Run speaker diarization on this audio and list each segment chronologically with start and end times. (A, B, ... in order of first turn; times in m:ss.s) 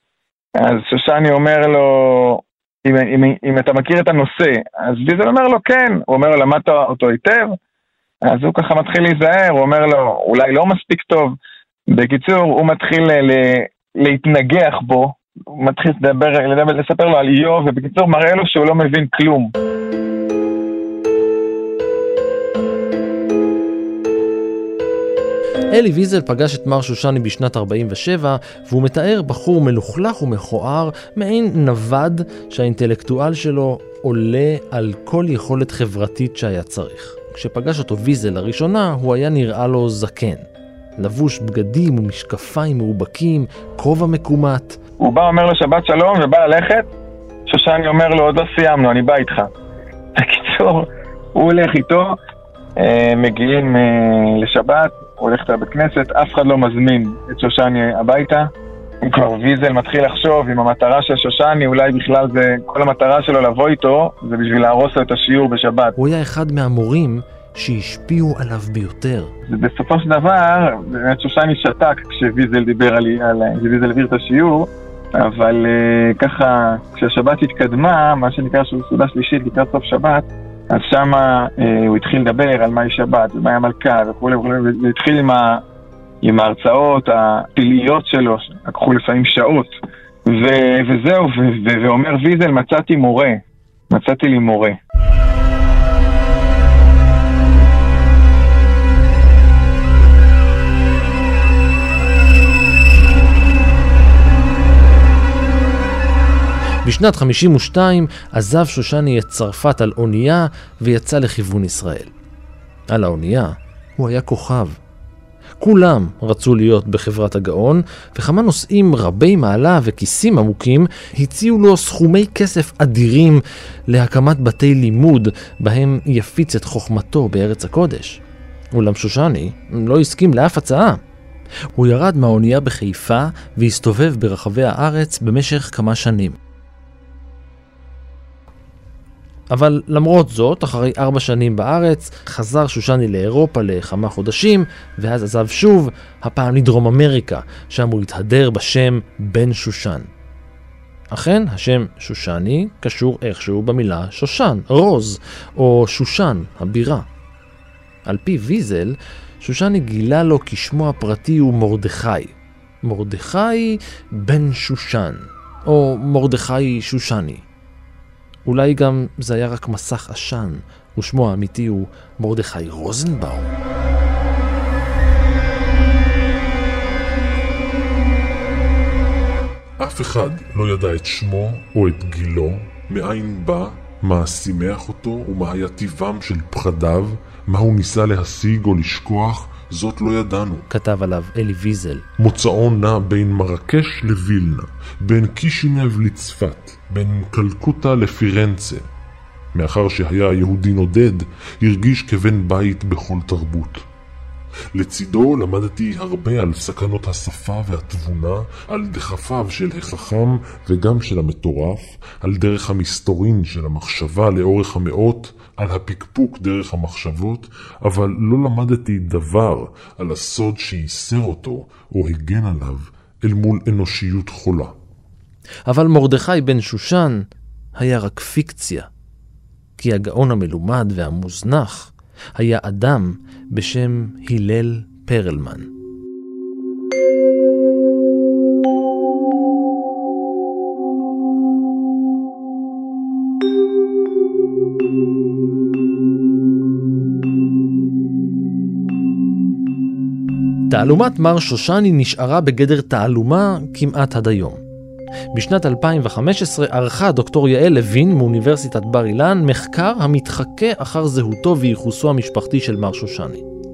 0:00.6-0:07.6 A
0:08.2-0:11.4 A
0:11.9-0:19.5 A
0:25.7-0:40.4 B
0:41.0-0:44.8 B
0:45.0-0:46.9 A
0:47.5-0:49.5 A
0:50.2-0:52.2 A
0:52.8-0:58.5 A
0:59.0-1:06.0 A
1:06.0-1:09.3 B
1:09.5-1:25.6 A
1:26.2-1:34.8 A
1:46.8-1:52.1 B
1:52.9-1:54.8 B
1:55.6-2:08.2 B
2:08.7-2:11.0 B
2:11.8-2:16.4 B
2:19.5-2:30.1 B
2:31.1-2:37.1 B
2:38.1-2:47.4 B
2:48.5-2:53.5 B
2:59.8-3:10.7 C
3:10.7-3:12.1 B
3:12.2-3:18.9 C
3:19.5-3:23.9 C
3:24.7-3:44.7 C
3:45.7-3:48.9 B
3:49.8-3:55.7 B
4:10.7-4:14.6 B
4:15.3-4:23.4 B